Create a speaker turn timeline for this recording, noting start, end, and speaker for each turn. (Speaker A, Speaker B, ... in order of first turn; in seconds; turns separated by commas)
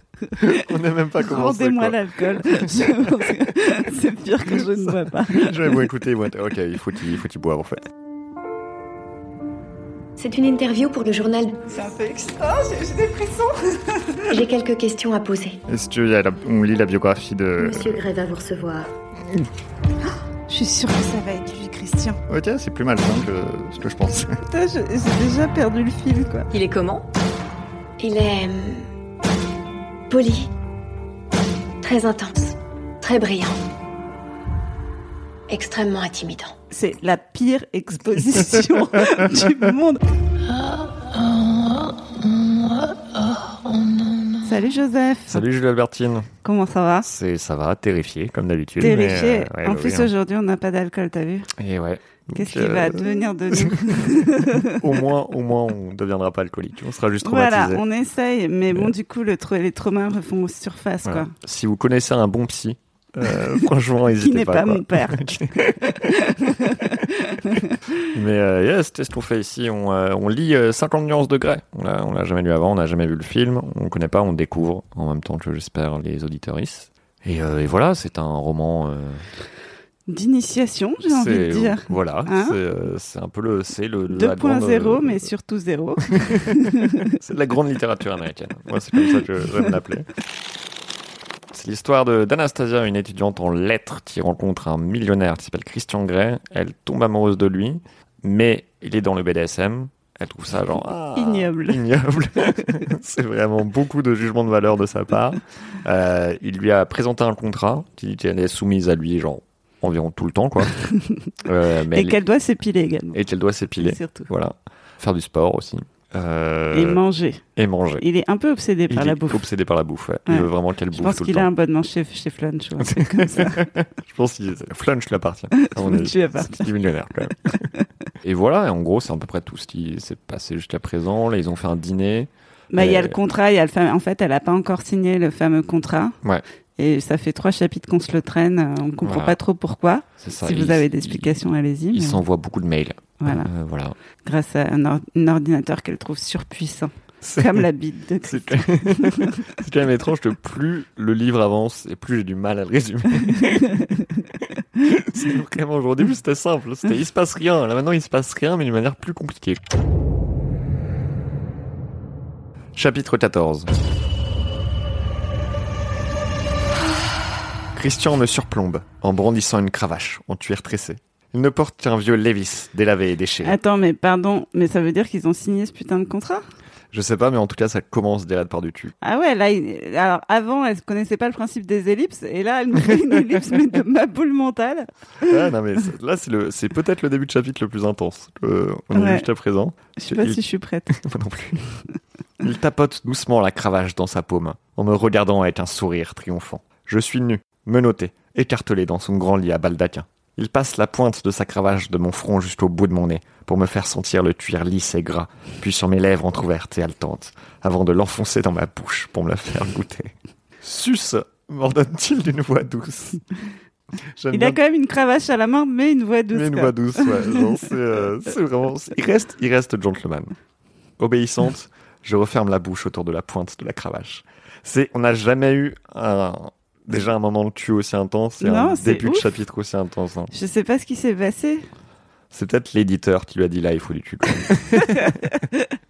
Speaker A: 0.4-3.2, Speaker B: 1.2-5.8, Speaker A: 4.6-7.9, Speaker C: 10.2-11.6, Speaker B: 11.7-14.2, Speaker C: 14.3-15.6, Speaker A: 15.7-18.0, Speaker C: 17.6-18.9, Speaker B: 20.5-22.2, Speaker A: 22.3-24.4, Speaker B: 24.4-26.5, Speaker C: 26.5-27.0, Speaker C: 28.0-28.9, Speaker C: 30.1-30.5, Speaker C: 31.8-33.6, Speaker C: 35.5-36.5, Speaker B: 36.7-40.0, Speaker B: 44.4-45.4, Speaker A: 45.3-46.3, Speaker B: 46.4-47.1, Speaker A: 47.0-50.1, Speaker B: 48.8-51.5, Speaker A: 51.5-57.8, Speaker B: 52.3-54.8, Speaker B: 57.2-61.3, Speaker A: 61.0-66.8, Speaker B: 64.2-65.2, Speaker B: 65.7-67.8, Speaker A: 68.1-79.2, Speaker B: 80.1-82.6, Speaker A: 81.0-85.3, Speaker B: 84.1-87.0, Speaker A: 86.1-90.1, Speaker A: 91.5-110.7, Speaker B: 101.1-101.8, Speaker A: 111.4-112.2, Speaker B: 111.9-113.2, Speaker A: 113.1-117.0, Speaker B: 113.8-114.3, Speaker B: 116.7-117.4, Speaker A: 117.5-118.0, Speaker B: 118.0-119.4, Speaker A: 118.9-121.5, Speaker B: 120.3-123.7, Speaker A: 122.8-127.7, Speaker B: 125.5-126.7, Speaker A: 128.2-133.2, Speaker B: 132.7-136.2, Speaker B: 136.8-142.2, Speaker A: 139.0-139.4, Speaker A: 140.2-141.4, Speaker A: 141.9-143.9, Speaker B: 143.2-143.5, Speaker B: 144.2-149.4, Speaker A: 147.2-147.7, Speaker A: 148.2-153.8, Speaker B: 153.2-154.0, Speaker A: 154.8-159.6, Speaker A: 162.7-163.7, Speaker A: 167.7-173.6, Speaker B: 173.4-176.4, Speaker A: 176.9-178.9, Speaker B: 179.0-185.4, Speaker A: 185.2-191.6, Speaker B: 188.9-189.3, Speaker B: 190.0-190.9, Speaker A: 192.4-213.2, Speaker A: 214.1-214.6, Speaker B: 214.3-217.5, Speaker A: 216.3-220.3, Speaker A: 221.0-230.3, Speaker B: 228.4-229.3, Speaker B: 230.3-231.7, Speaker A: 232.3-235.2, Speaker B: 234.9-235.7